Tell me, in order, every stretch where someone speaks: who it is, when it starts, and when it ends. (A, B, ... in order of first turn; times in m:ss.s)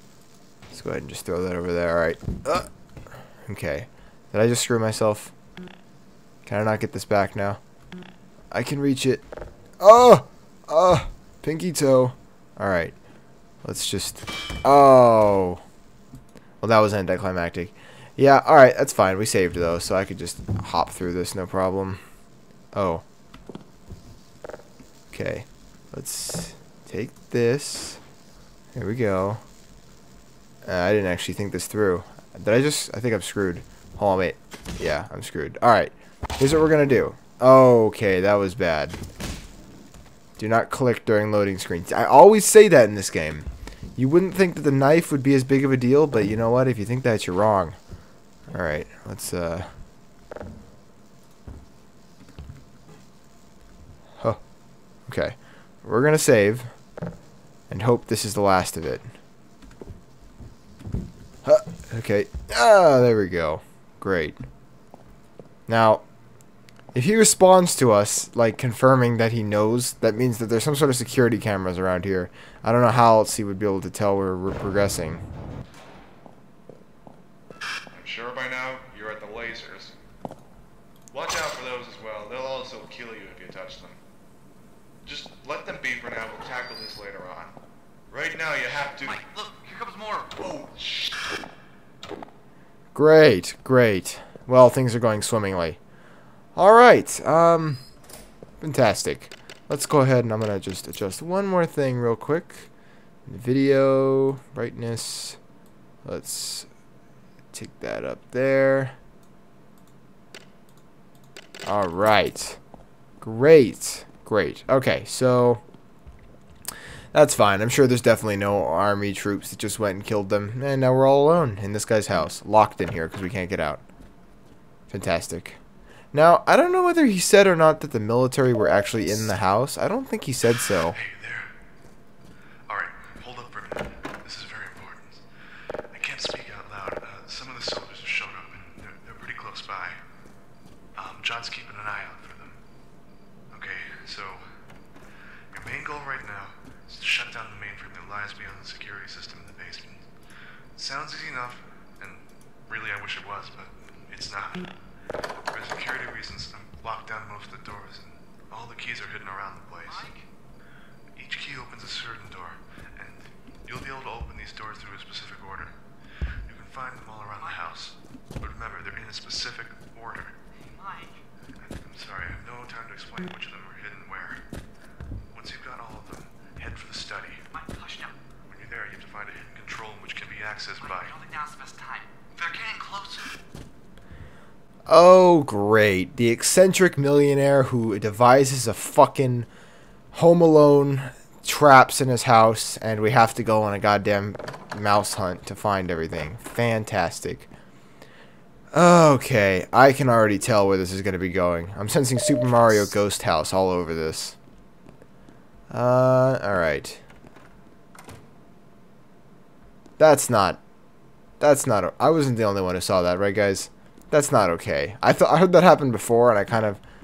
0:00.7-0:02.7 A
0:03.4-0:05.3 A
0:06.4-0:07.6 A
0:08.5-0:09.2 A
0:09.8-0:13.0 A
0:13.6-0:15.6 A
0:16.6-0:22.0 A
0:22.7-0:23.0 A
0:25.1-0:28.0 A
0:28.7-0:29.4 A
0:30.6-0:39.0 A
0:40.4-0:47.8 A
0:48.5-0:49.7 A
0:55.1-0:56.7 A
0:57.7-0:59.1 A
1:01.4-1:04.4 A
1:05.7-1:06.0 A
1:06.9-1:15.2 A
1:17.9-1:20.0 B
1:21.1-1:24.0 B
1:25.0-1:27.5 B
1:28.1-1:29.6 B
1:29.6-1:30.1 C
1:29.8-1:30.4 D
1:30.5-1:31.2 B
1:32.9-1:35.8 A
1:36.6-1:37.8 A
1:38.6-1:42.7 A
1:43.3-1:45.4 A
1:46.0-1:46.7 A
1:47.5-1:48.9 A
1:51.6-1:52.6 A
1:53.2-1:55.6 A
1:57.1-2:03.8 A
2:04.9-2:05.6 A
2:06.1-2:11.0 A
2:10.9-2:11.5 C
2:12.7-2:15.2 C
2:15.9-2:20.0 C
2:21.0-2:22.6 C
2:23.5-2:24.4 C
2:25.5-2:30.0 C
2:30.8-2:34.7 C
2:35.5-2:40.2 C
2:41.2-2:45.7 C
2:46.5-2:50.4 C
2:50.8-2:51.1 D
2:51.6-2:54.4 C
2:55.3-2:57.4 C
2:57.5-2:58.2 D
2:58.4-3:01.2 C
3:00.9-3:03.2 D
3:02.8-3:03.2 C
3:04.9-3:09.5 A
3:10.1-3:17.5 A
3:18.7-3:24.4 A
3:25.7-3:27.0 A
3:30.0-3:30.6 A
3:31.4-3:36.8 A